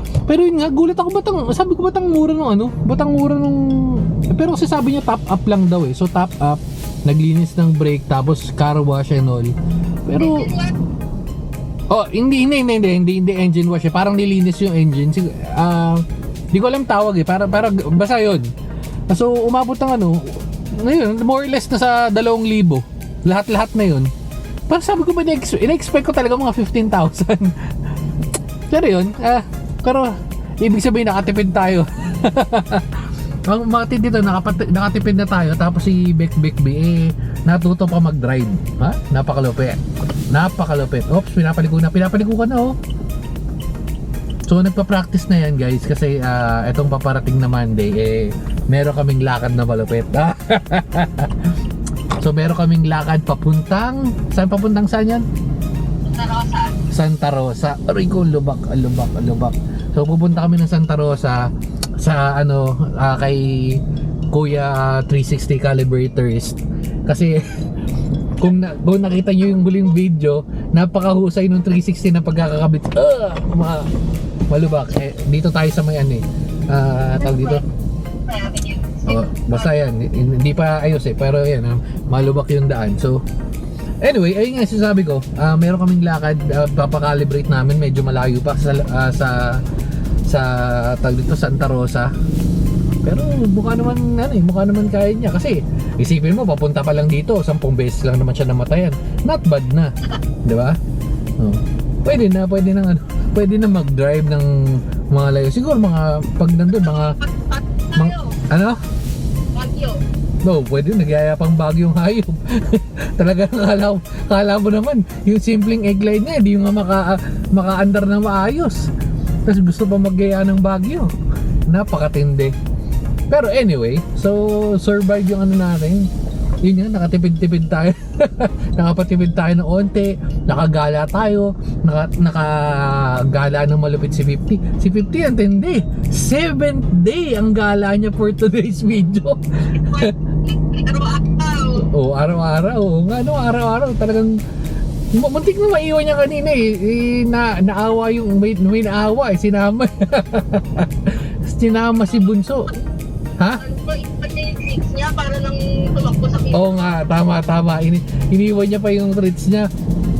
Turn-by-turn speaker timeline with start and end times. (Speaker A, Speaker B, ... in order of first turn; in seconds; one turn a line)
Speaker A: 0.3-9.5
Speaker A: 10.1-10.5
Speaker B: 10.2-10.7
Speaker A: 11.9-18.5
Speaker A: 19.1-24.1
Speaker A: 24.7-27.6
Speaker A: 28.7-42.8
Speaker A: 44.5-51.5
Speaker A: 52.2-55.2
Speaker B: 56.1-56.7
Speaker A: 56.9-61.5
Speaker A: 62.0-67.4
Speaker A: 68.4-73.9
Speaker A: 74.5-77.6
Speaker B: 77.2-77.6
Speaker B: 78.2-79.7
Speaker A: 79.1-83.2
Speaker A: 84.0-89.6
Speaker A: 90.3-92.1
Speaker A: 93.0-99.9
Speaker A: 100.5-100.8
Speaker A: 101.4-104.5
Speaker A: 105.1-107.2
Speaker B: 106.8-108.3
Speaker A: 108.0-108.8
Speaker B: 109.5-110.0
Speaker A: 110.4-118.9
Speaker A: 119.5-121.1
Speaker A: 121.7-122.5
Speaker A: 123.3-126.1
Speaker A: 126.6-140.1
Speaker B: 139.9-141.8
Speaker A: 141.8-144.4
Speaker A: 145.1-152.7
Speaker B: 153.6-156.8
Speaker A: 156.5-159.7